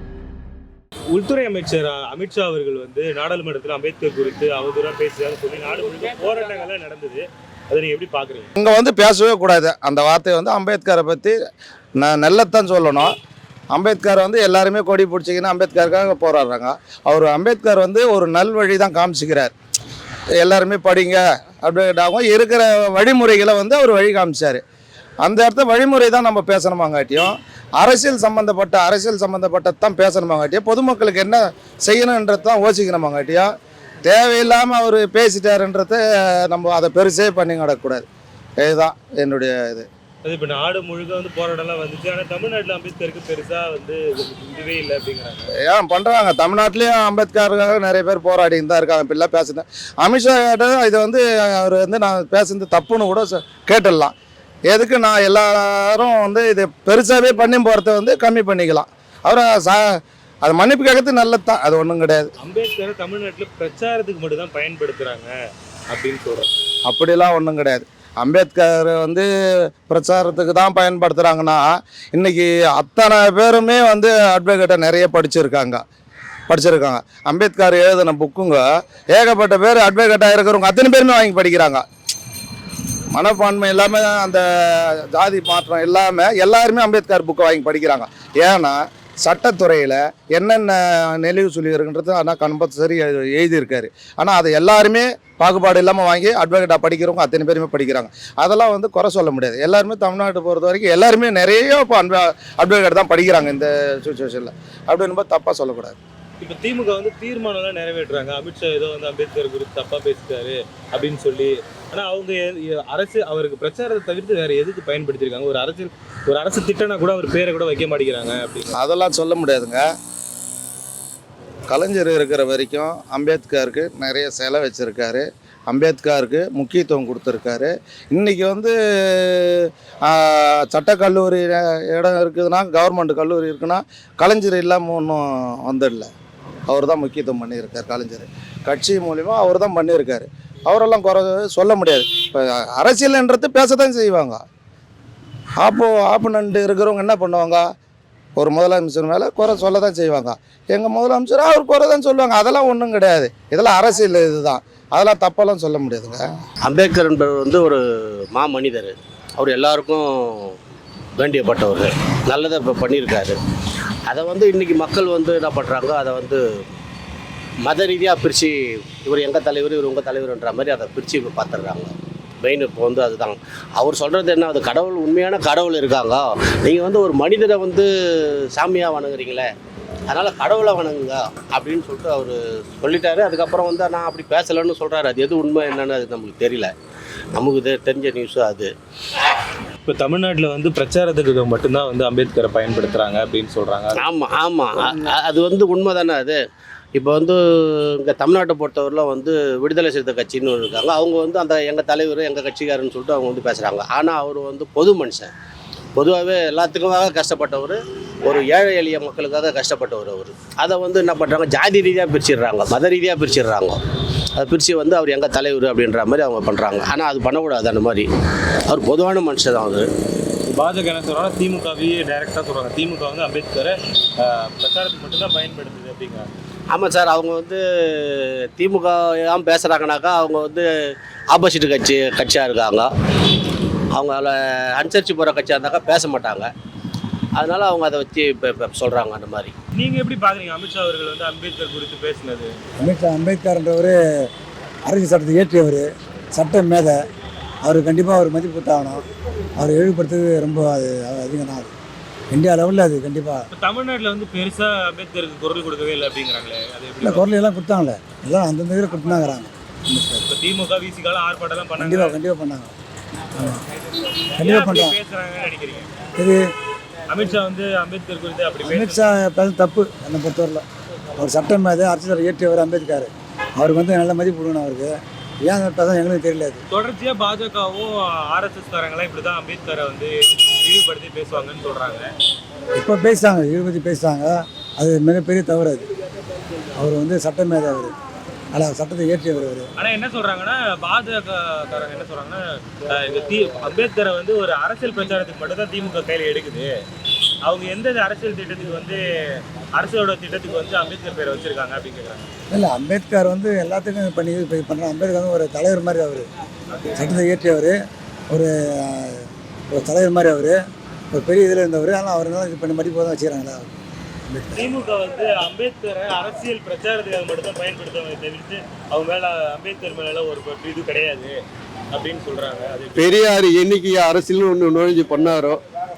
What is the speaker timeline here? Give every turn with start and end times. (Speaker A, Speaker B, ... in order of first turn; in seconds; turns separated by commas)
Speaker A: 1.1-8.5, Speaker B: 8.6-11.3, Speaker B: 12.0-13.1, Speaker B: 13.7-19.5, Speaker B: 20.4-24.6, Speaker B: 25.2-33.5, Speaker B: 34.0-38.0, Speaker B: 38.6-39.9, Speaker A: 40.2-45.5, Speaker B: 45.7-54.1, Speaker B: 54.7-59.8, Speaker B: 60.4-62.3, Speaker A: 62.4-65.3, Speaker A: 65.9-66.5, Speaker B: 66.9-69.2, Speaker B: 69.9-75.8, Speaker B: 76.5-78.6, Speaker B: 79.1-81.8, Speaker B: 83.1-106.0, Speaker A: 106.4-118.7, Speaker B: 118.8-119.8, Speaker B: 121.7-136.1, Speaker B: 136.7-144.4, Speaker B: 145.6-147.6, Speaker B: 148.4-156.2, Speaker C: 156.6-157.8, Speaker C: 158.3-160.5, Speaker C: 161.2-163.3, Speaker C: 164.1-166.4, Speaker C: 167.6-177.9, Speaker C: 178.5-179.5, Speaker C: 180.1-186.7, Speaker C: 187.3-188.7, Speaker A: 189.8-194.0, Speaker C: 194.0-196.4, Speaker C: 197.0-197.4, Speaker C: 198.0-205.3, Speaker C: 205.9-213.8, Speaker C: 214.3-218.1, Speaker C: 218.7-219.9, Speaker A: 220.5-226.3, Speaker C: 226.7-230.7, Speaker C: 231.3-232.9, Speaker C: 233.9-236.5, Speaker C: 237.3-239.5, Speaker A: 239.7-242.5, Speaker D: 242.8-243.9, Speaker D: 244.8-246.9, Speaker D: 247.6-249.0, Speaker D: 249.6-251.7, Speaker D: 252.3-253.5, Speaker A: 253.5-257.2, Speaker D: 257.0-260.3, Speaker A: 260.3-262.2, Speaker D: 261.8-262.7, Speaker D: 263.3-263.6, Speaker D: 264.3-264.9, Speaker A: 264.4-265.9, Speaker D: 266.2-266.4, Speaker A: 267.1-269.0, Speaker D: 268.6-270.6, Speaker D: 271.2-276.6, Speaker A: 276.7-282.1, Speaker D: 282.7-285.9, Speaker D: 286.8-287.9, Speaker D: 288.5-289.7, Speaker A: 289.8-296.7, Speaker A: 297.4-302.3, Speaker D: 302.5-306.3, Speaker D: 306.9-307.8, Speaker D: 308.3-310.6, Speaker D: 311.1-313.7, Speaker D: 314.3-314.6, Speaker A: 314.5-321.4, Speaker A: 321.9-323.2, Speaker E: 322.9-325.6